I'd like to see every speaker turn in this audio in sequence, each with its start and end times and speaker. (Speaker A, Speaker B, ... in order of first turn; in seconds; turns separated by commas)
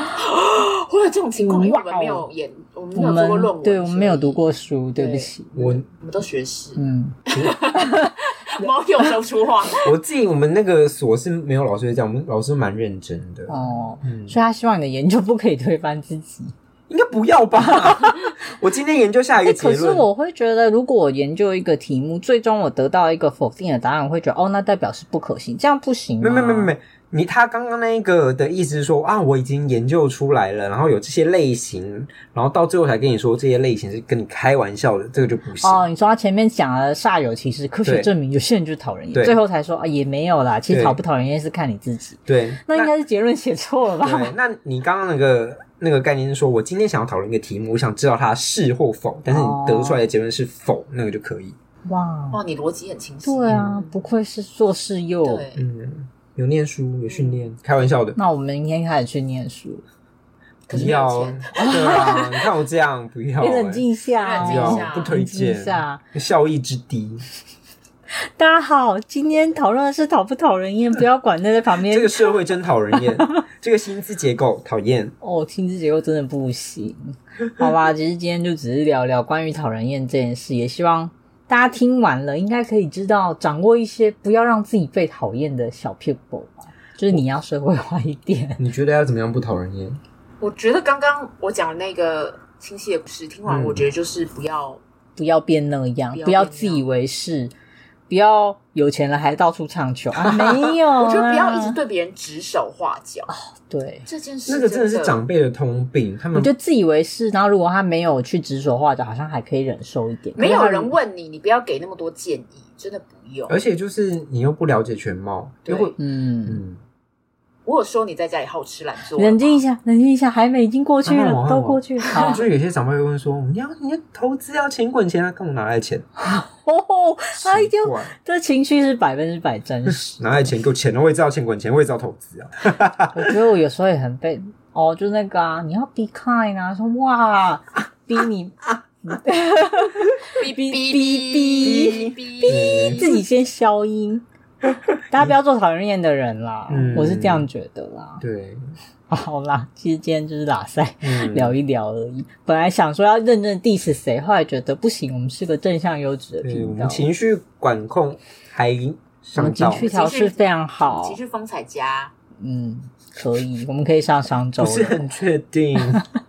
Speaker A: 0.1-4.4, Speaker B: 1.4-2.2, Speaker B: 2.9-5.7, Speaker A: 5.0-5.3, Speaker C: 5.5-5.8, Speaker A: 5.9-9.9, Speaker B: 6.8-8.7, Speaker C: 9.8-14.4, Speaker B: 13.5-16.5, Speaker C: 16.9-20.0, Speaker B: 17.6-18.1, Speaker B: 19.4-26.7, Speaker C: 26.2-35.8, Speaker B: 35.6-44.3, Speaker C: 37.8-38.1, Speaker C: 40.7-41.0, Speaker C: 42.3-42.9, Speaker C: 44.0-51.5, Speaker B: 49.3-50.0, Speaker B: 51.9-52.4, Speaker A: 52.3-53.9, Speaker B: 53.2-55.5, Speaker C: 53.5-53.8, Speaker A: 55.2-55.6, Speaker C: 55.5-58.2, Speaker A: 57.1-57.4, Speaker B: 58.1-59.8, Speaker A: 60.7-62.3, Speaker C: 60.7-63.8, Speaker B: 61.5-62.3, Speaker B: 63.4-66.0, Speaker A: 64.2-65.1, Speaker C: 64.4-67.2, Speaker B: 68.4-72.3, Speaker C: 71.9-75.1, Speaker B: 75.2-88.6, Speaker C: 88.6-90.0, Speaker A: 90.4-94.8, Speaker C: 93.5-93.8, Speaker B: 95.2-97.5, Speaker A: 96.1-96.8, Speaker B: 98.1-101.8, Speaker C: 100.2-100.6, Speaker A: 100.9-103.3, Speaker B: 103.3-104.0, Speaker A: 104.0-105.2, Speaker C: 104.5-106.5, Speaker B: 106.3-110.9, Speaker A: 110.3-113.5, Speaker C: 113.5-116.8, Speaker A: 115.7-115.9, Speaker B: 116.0-116.6, Speaker A: 117.7-119.6, Speaker B: 119.2-122.4, Speaker C: 121.0-126.0, Speaker B: 126.2-130.2, Speaker C: 127.4-128.1, Speaker C: 130.2-133.2, Speaker B: 133.1-144.2, Speaker A: 140.3-143.2, Speaker C: 141.6-143.0, Speaker B: 145.1-148.2, Speaker C: 146.7-147.5, Speaker C: 148.2-148.7, Speaker B: 149.1-157.1, Speaker C: 151.0-151.6, Speaker C: 156.4-159.9, Speaker B: 159.3-161.2, Speaker A: 159.7-162.1, Speaker B: 162.4-165.1, Speaker C: 164.6-166.0